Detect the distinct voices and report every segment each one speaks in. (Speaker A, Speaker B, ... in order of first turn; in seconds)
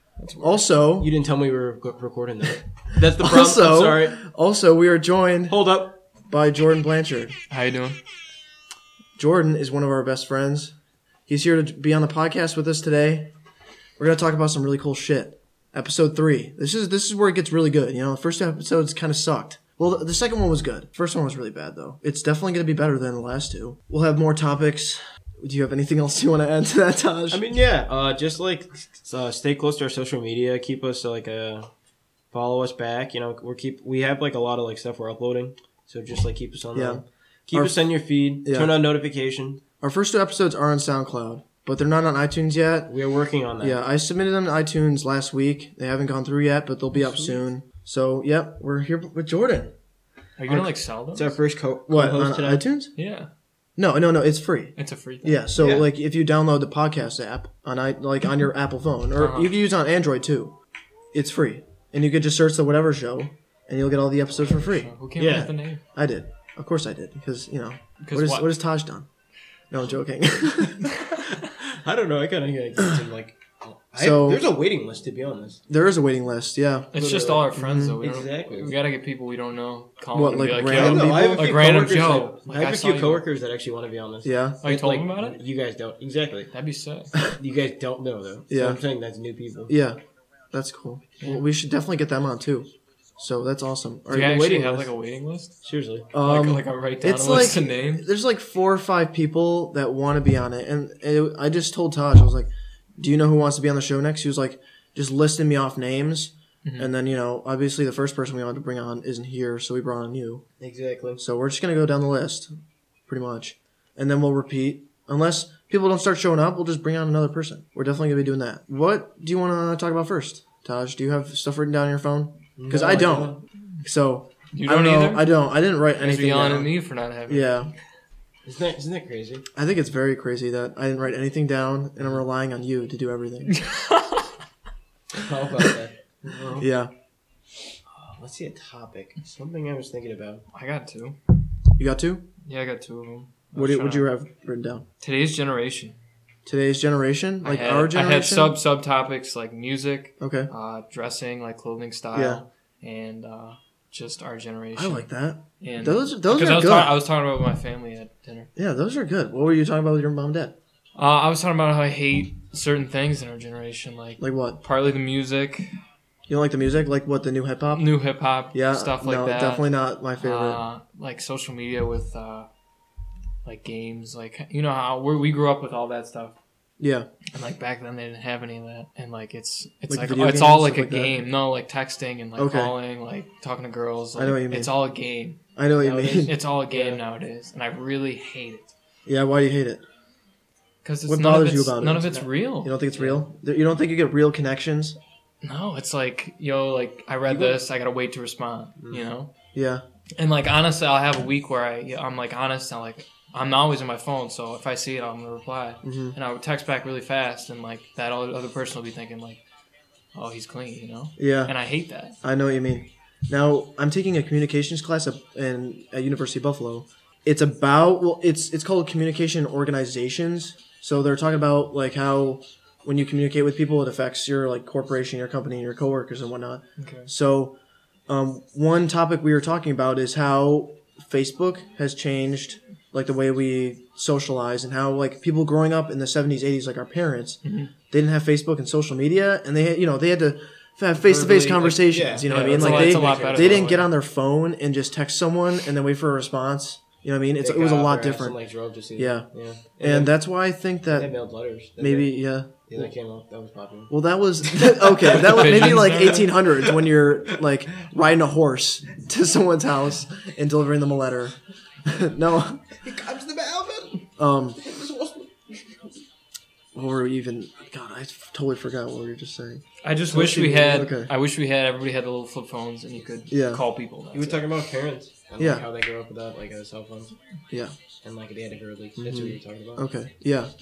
Speaker A: 0.2-0.7, 7.5-8.0, 46.9-47.4, 50.4-51.4, 53.0-53.3, 54.8-55.5, 59.1-59.5, 64.4-65.8, 68.0-68.5, 70.9-71.2, 76.9-83.2, 84.6-85.4, 86.5-87.2, 94.1-95.6, 96.2-98.1, 106.6-106.9, 124.5-125.3, 126.0-127.6, 133.5-134.3, 140.5-141.2, 142.5-144.1, 145.0-146.0, 147.4-155.1, 155.6-158.5, 161.0-165.7, 167.7-172.5, 173.4-176.3, 177.3-185.4, 186.2-188.7, 190.8-192.8, 195.4-199.3, 200.2-209.4, 210.2-212.2, 226.8-227.1, 237.4-237.7, 241.0-243.9, 255.1-256.4, 269.8-274.6
Speaker B: 0.4-1.1, 3.0-5.6, 6.3-7.4, 9.2-10.7, 11.3-13.3, 14.0-27.4, 36.7-37.9, 38.4-38.8, 39.8-42.9, 43.6-49.7, 51.9-52.9, 53.8-60.5, 61.1-69.1, 69.7-71.2, 74.0-74.5, 75.7-76.9, 77.5-78.0, 80.1-81.6, 84.2-84.6, 88.5-88.8, 89.7-90.0, 90.5-94.9, 96.1-110.4, 111.2-112.5, 113.1-126.7, 127.3-127.7, 129.6-133.6, 136.6-136.9, 141.8-142.2, 143.5-144.8, 146.5-148.6, 150.2-150.5, 152.1-152.4, 154.8-157.0, 158.6-160.6, 164.2-164.6, 166.3-167.9, 168.5-170.6, 176.8-177.1, 179.9-181.2, 182.4-182.8, 184.2-184.7, 185.6-186.3, 189.1-189.8, 191.1-195.0, 199.5-199.8, 205.8-206.2, 211.2-211.5, 212.2-227.6, 228.1-248.4, 248.9-249.3, 249.8-251.1, 251.8-252.9, 253.9-262.6, 264.2-264.6, 266.8-271.1, 273.3-273.6, 275.4-275.6, 279.0-280.5
Speaker C: 1.0-4.2, 5.5-6.0, 27.3-31.7, 32.3-39.6, 42.9-43.8, 50.5-52.6, 55.6-55.9, 65.2-65.5, 71.3-75.6, 77.0-77.5, 78.0-78.7, 80.6-86.5, 87.4-89.8, 95.6-96.1, 110.6-111.2, 122.6-123.4, 128.4-129.4, 135.1-136.7, 137.9-140.4, 185.8-187.0, 192.9-193.2, 197.3-197.6, 198.8-199.1, 241.8-243.8, 247.4-250.2, 250.9-256.0, 256.6-257.4, 262.8-265.4, 274.1-277.1, 278.0-279.9